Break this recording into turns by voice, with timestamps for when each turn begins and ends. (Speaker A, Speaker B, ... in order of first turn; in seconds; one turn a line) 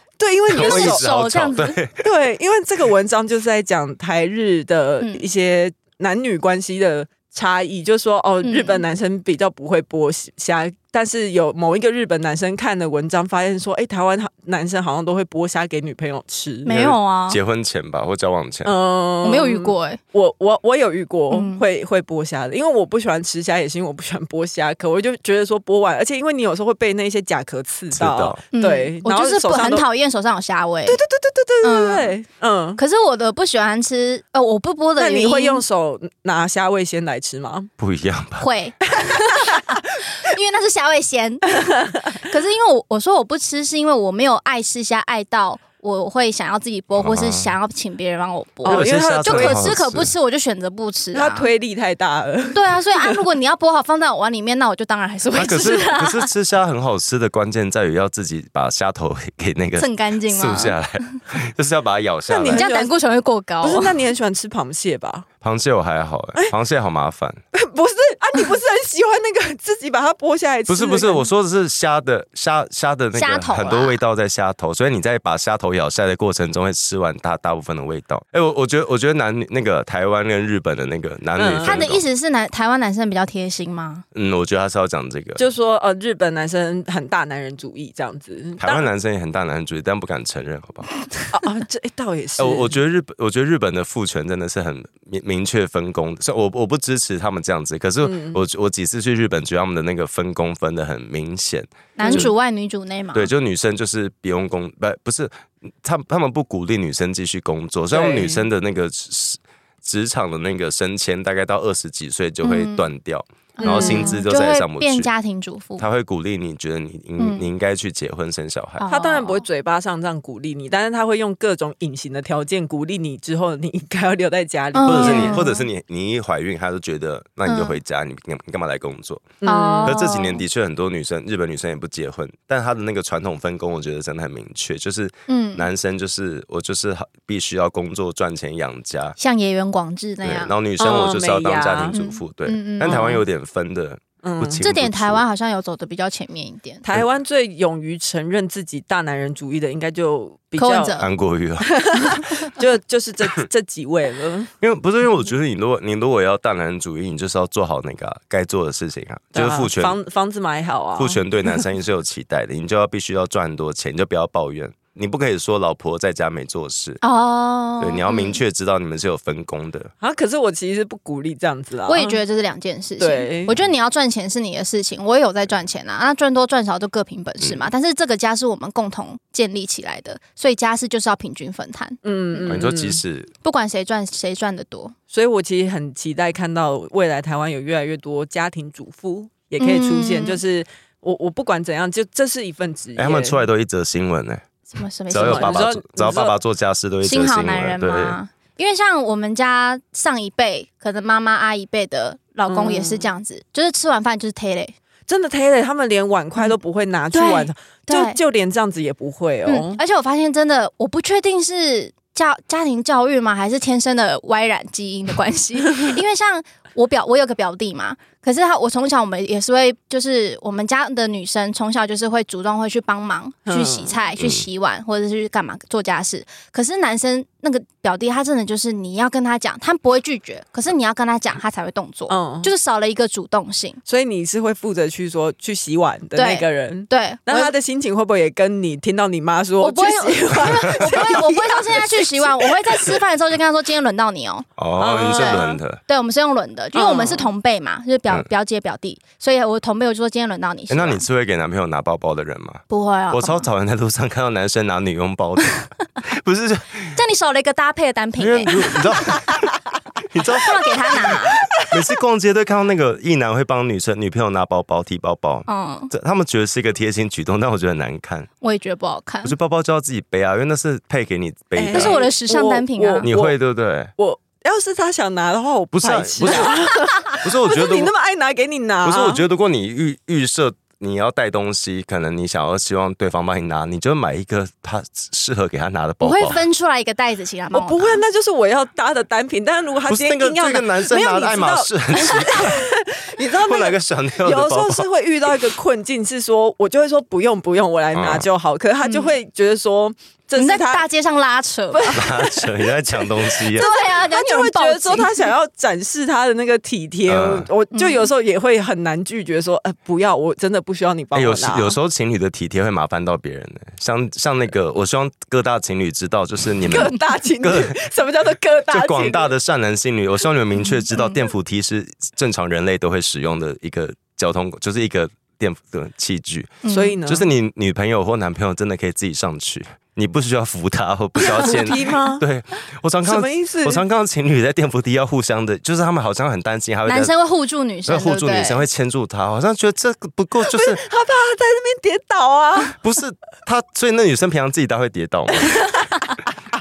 Speaker A: 0.2-1.0
Speaker B: 0.5-2.0
Speaker C: 0.5-1.8
Speaker A: 2.0-16.8
Speaker C: 8.4-8.8
Speaker C: 16.6-17.4
Speaker B: 16.7-18.7
Speaker A: 18.6-29.9
Speaker C: 19.2-20.0
Speaker C: 21.3-21.6
Speaker B: 27.9-28.4
Speaker C: 28.5-31.0
Speaker A: 30.9-32.8
Speaker C: 31.6-32.1
Speaker C: 32.8-35.6
Speaker A: 35.0-37.7
Speaker B: 37.8-38.5
Speaker C: 38.4-51.5
Speaker A: 38.9-39.6
Speaker A: 41.6-41.9
Speaker B: 47.0-47.5
Speaker A: 48.6-49.7
Speaker B: 48.6-50.1
Speaker A: 51.1-53.2
Speaker C: 52.5-56.3
Speaker B: 55.3-62.7
Speaker C: 59.8-61.2
Speaker A: 62.3-62.9
Speaker C: 62.4-63.9
Speaker A: 63.6-65.3
Speaker B: 65.4-67.4
Speaker A: 67.5-71.3
Speaker B: 70.7-82.0
Speaker C: 73.1-74.0
Speaker A: 81.4-81.9
Speaker C: 81.6-84.0
Speaker B: 84.1-85.4
Speaker A: 85.4-88.9
Speaker B: 88.6-90.9
Speaker A: 91.3-92.8
Speaker B: 92.4-102.3
Speaker A: 98.0-98.4
Speaker C: 102.0-103.3
Speaker A: 102.0-102.3
Speaker B: 103.1-115.1
Speaker A: 107.9-108.5
Speaker C: 112.4-112.9
Speaker C: 113.6-115.8
Speaker A: 113.6-114.2
Speaker B: 115.8-118.8
Speaker C: 117.2-117.5
Speaker C: 118.8-119.4
Speaker A: 118.9-125.5
Speaker C: 124.7-125.6
Speaker B: 124.8-139.2
Speaker C: 127.5-127.8
Speaker A: 129.4-130.0
Speaker C: 129.4-130.4
Speaker C: 135.3-135.7
Speaker C: 139.2-140.5
Speaker B: 140.2-145.2
Speaker A: 140.8-141.9
Speaker C: 141.9-143.2
Speaker A: 142.8-143.2
Speaker A: 144.2-144.6
Speaker C: 144.6-146.8
Speaker A: 146.8-151.0
Speaker C: 150.6-151.1
Speaker B: 151.0-151.8
Speaker A: 151.6-154.5
Speaker B: 154.6-160.0
Speaker A: 159.3-161.6
Speaker B: 160.9-167.0
Speaker C: 167.0-168.4
Speaker B: 167.8-169.9
Speaker A: 170.0-172.2
Speaker C: 171.9-182.6
Speaker A: 173.0-173.5
Speaker B: 177.4-177.7
Speaker A: 182.0-183.0
Speaker B: 182.5-183.3
Speaker C: 183.4-184.9
Speaker A: 185.1-193.4
Speaker C: 189.6-190.4
Speaker B: 192.9-194.4
Speaker C: 194.7-195.6
Speaker B: 195.1-198.2
Speaker A: 195.1-196.3
Speaker C: 197.0-204.7
Speaker A: 202.5-203.1
Speaker A: 205.1-209.8
Speaker C: 207.1-208.2
Speaker C: 209.4-233.8
Speaker A: 223.4-223.9
Speaker B: 224.2-224.4
Speaker A: 232.1-232.5
Speaker A: 233.9-243.0
Speaker C: 236.1-237.5
Speaker C: 239.6-244.4
Speaker B: 240.4-240.9
Speaker B: 244.6-245.8
Speaker A: 244.8-245.6
Speaker C: 245.0-251.0
Speaker A: 246.7-247.3
Speaker B: 250.7-256.9
Speaker C: 252.7-253.4
Speaker C: 256.9-259.2
Speaker B: 258.2-259.5
Speaker B: 260.1-268.3
Speaker C: 260.3-261.3
Speaker C: 265.5-265.9
Speaker C: 268.4-269.3
Speaker B: 269.2-272.1
Speaker A: 271.5-273.4
Speaker C: 271.7-273.1
Speaker B: 273.0-273.9
Speaker A: 274.0-279.2
Speaker B: 275.7-277.9
Speaker B: 278.8-286.4
Speaker C: 286.0-288.0
Speaker A: 287.5-300.8
Speaker B: 289.9-292.7
Speaker B: 293.4-294.9
Speaker B: 297.9-298.3
Speaker C: 298.8-299.1
Speaker C: 300.4-302.0
Speaker A: 301.7-302.7
Speaker B: 301.9-303.6
Speaker A: 303.4-311.8
Speaker C: 303.5-305.1
Speaker B: 307.1-307.5
Speaker C: 307.7-308.1
Speaker B: 311.1-317.8
Speaker A: 316.6-319.3
Speaker B: 318.7-337.1
Speaker C: 320.6-321.1
Speaker C: 326.6-327.0
Speaker A: 326.6-327.3
Speaker A: 331.2-332.2
Speaker A: 333.0-333.8
Speaker C: 336.9-338.6
Speaker B: 337.9-340.8
Speaker A: 340.4-342.8
Speaker B: 342.8-345.6
Speaker C: 345.6-346.2